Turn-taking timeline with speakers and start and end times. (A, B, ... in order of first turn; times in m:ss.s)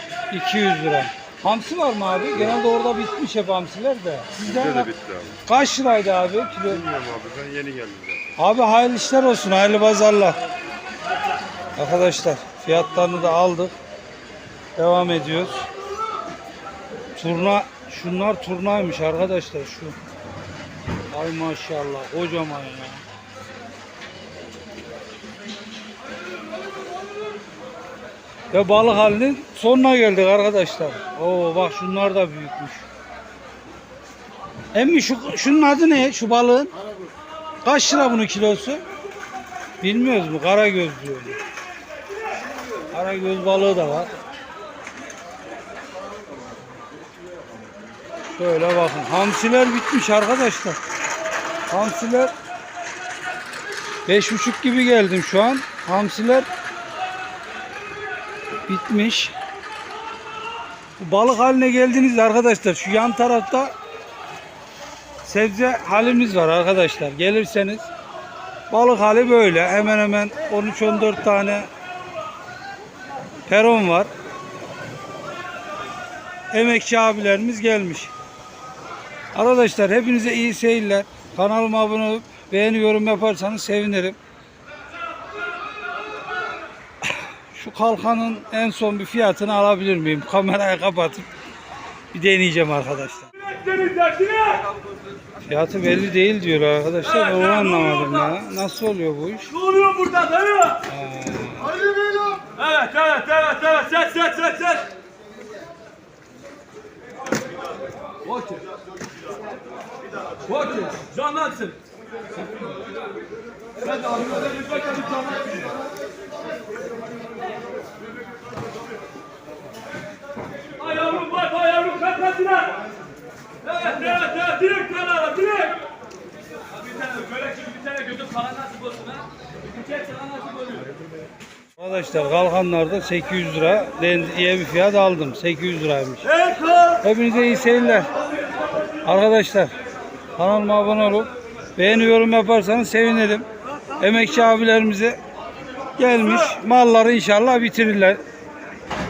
0:00.3-0:04.9 A
0:04.6-0:05.4 B
0:05.5-0:06.9 A
0:06.7-0:08.2 B
0:08.4-0:10.4 A
0:11.8-0:13.8 A
0:14.8-0:15.7 A
0:17.2-0:20.0 A
0:21.1-0:23.0 A
0:28.5-0:32.8 A
0:34.7-0:36.7 A
0:37.6-0:38.8 A
0:39.8-0:41.4 A
0:42.9-0:44.1 A
0:48.3-0:50.8 A
0:51.7-0:52.3 A
0:54.1-0:56.5 A
0:58.7-0:59.3 A
1:01.0-1:03.7 A
1:05.2-1:07.9 A
1:08.7-1:11.7 A
1:13.5-1:14.1 A
1:16.5-1:18.1 A
1:19.4-1:24.2 A
1:27.0-1:31.3 A
1:32.1-1:33.3 A
1:33.6-1:34.6 C
1:35.4-1:39.5 A
1:39.6-1:40.8 C
1:40.8-1:41.8 A
1:42.5-1:44.9 C
1:50.5-1:51.8 C
1:54.0-1:55.5 C
2:00.8-2:02.8 C
2:03.6-2:05.8 C
2:06.8-2:09.3 C
2:09.9-2:10.8 C
2:11.8-2:16.4 A
2:17.0-2:18.1 A
2:19.0-2:19.7 A
2:20.4-2:23.5 A
2:24.0-2:25.2 A
2:26.0-2:28.2 A